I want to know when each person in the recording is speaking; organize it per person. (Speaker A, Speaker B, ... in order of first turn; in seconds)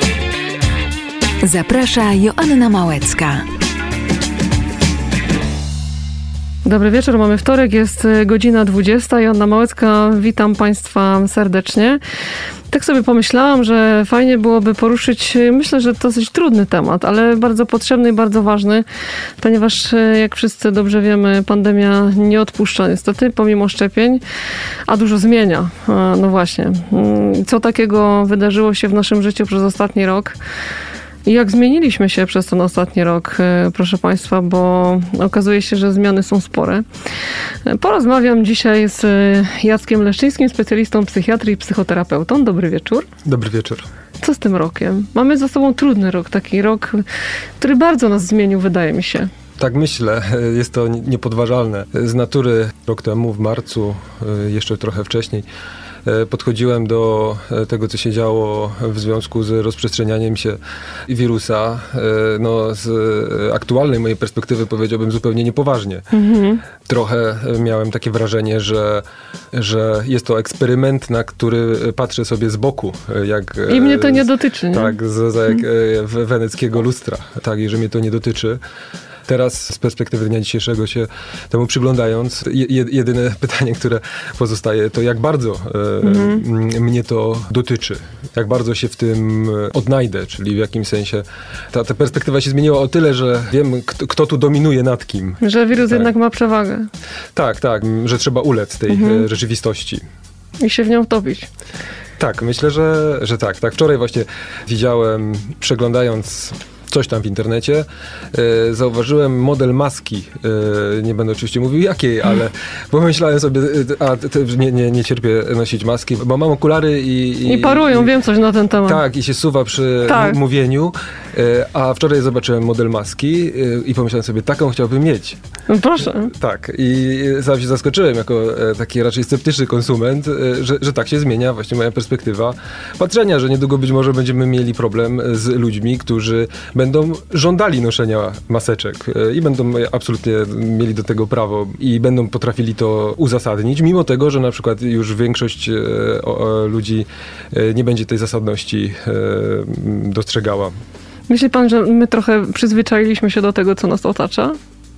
Speaker A: 1.4-3.5
Speaker B: 6.6-12.0, 12.7-18.9, 19.4-24.2, 24.9-30.4, 31.2-36.9, 37.6-43.1, 44.2-47.0, 47.6-49.3, 66.1-66.6, 73.7-75.0, 86.0-86.4, 95.4-96.9, 98.9-99.2, 100.6-101.5, 117.4-119.0, 120.0-120.4, 125.7-126.3, 151.3-154.6
Speaker C: 43.2-43.9, 49.6-55.5, 56.0-66.1, 66.8-78.6, 79.3-96.1, 97.3-100.0, 102.2-118.1, 118.8-125.4, 126.2-150.7